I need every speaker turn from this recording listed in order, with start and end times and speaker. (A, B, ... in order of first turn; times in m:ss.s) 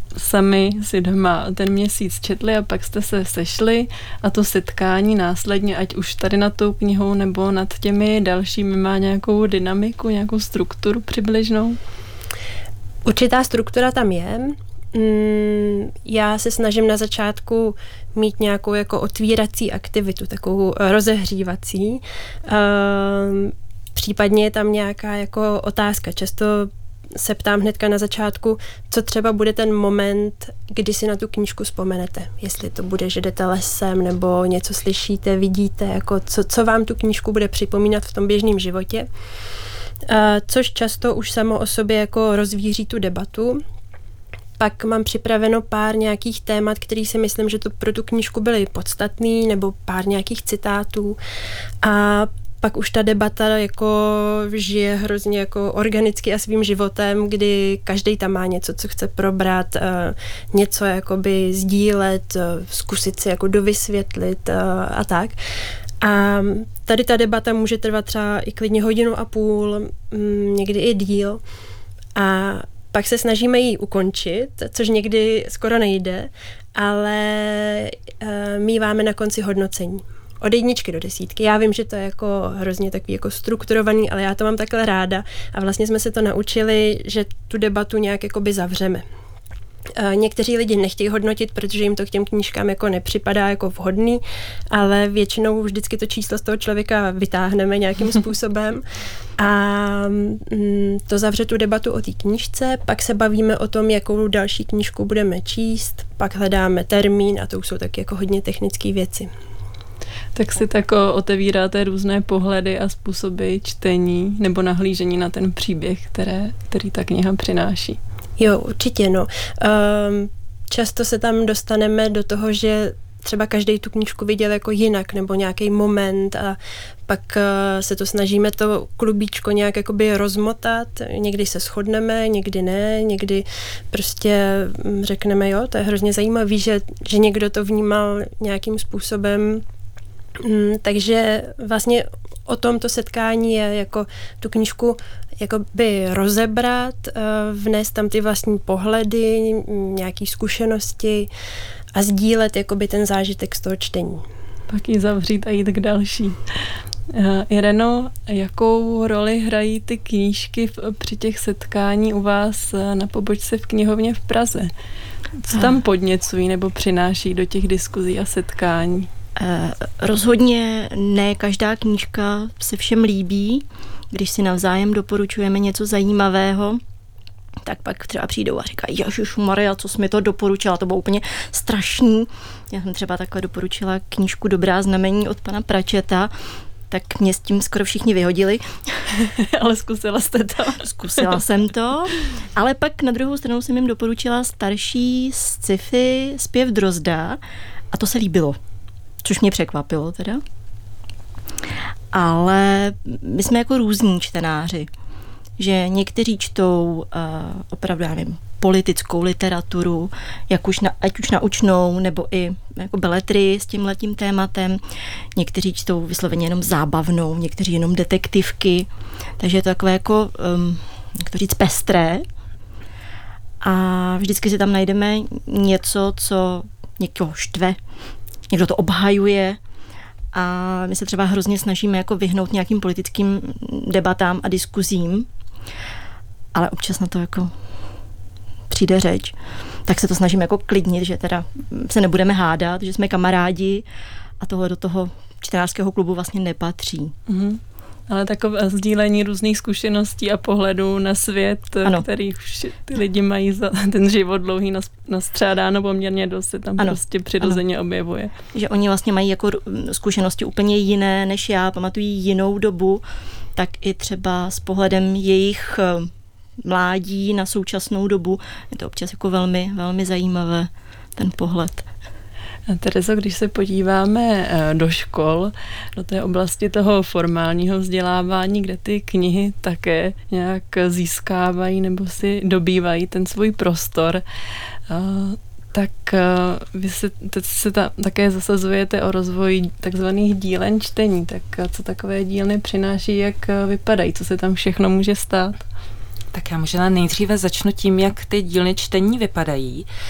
0:00.2-0:11.8 A
0:13.0-0:39.1 B
0:40.1-0:43.6 B
0:44.6-0:51.2 B
0:51.8-1:05.4 B
1:06.0-1:11.4 B
1:12.2-1:29.0 B
1:30.0-1:38.8 B
1:39.4-1:49.3 B
1:50.4-1:58.0 A
1:58.4-2:19.6 B
2:20.4-2:31.3 B
2:31.9-2:34.2 B
2:34.7-2:36.4 A
2:37.1-2:44.7 A
2:45.4-2:49.1 A
2:49.4-2:56.8 C
2:57.6-3:06.3 C
3:06.9-3:09.0 C
3:09.3-3:11.4 A
3:10.8-3:17.4 C
3:17.9-3:18.6 C
3:19.2-3:20.4 C
3:22.1-3:24.9 C
3:25.6-3:34.8 C
3:35.4-3:38.9 C
3:39.4-3:42.2 C
3:43.6-3:47.8 C
3:48.5-3:49.6 C
3:50.3-3:55.3 C
3:56.5-3:57.5 C
3:58.7-4:03.8 C
4:04.4-4:07.1 C
4:07.3-4:18.3 A
4:16.8-4:17.6 C
4:18.5-4:23.0 C
4:23.6-4:26.1 C
4:26.6-4:31.9 C
4:32.7-4:44.2 A
4:44.9-4:55.6 A
4:56.3-4:59.9 D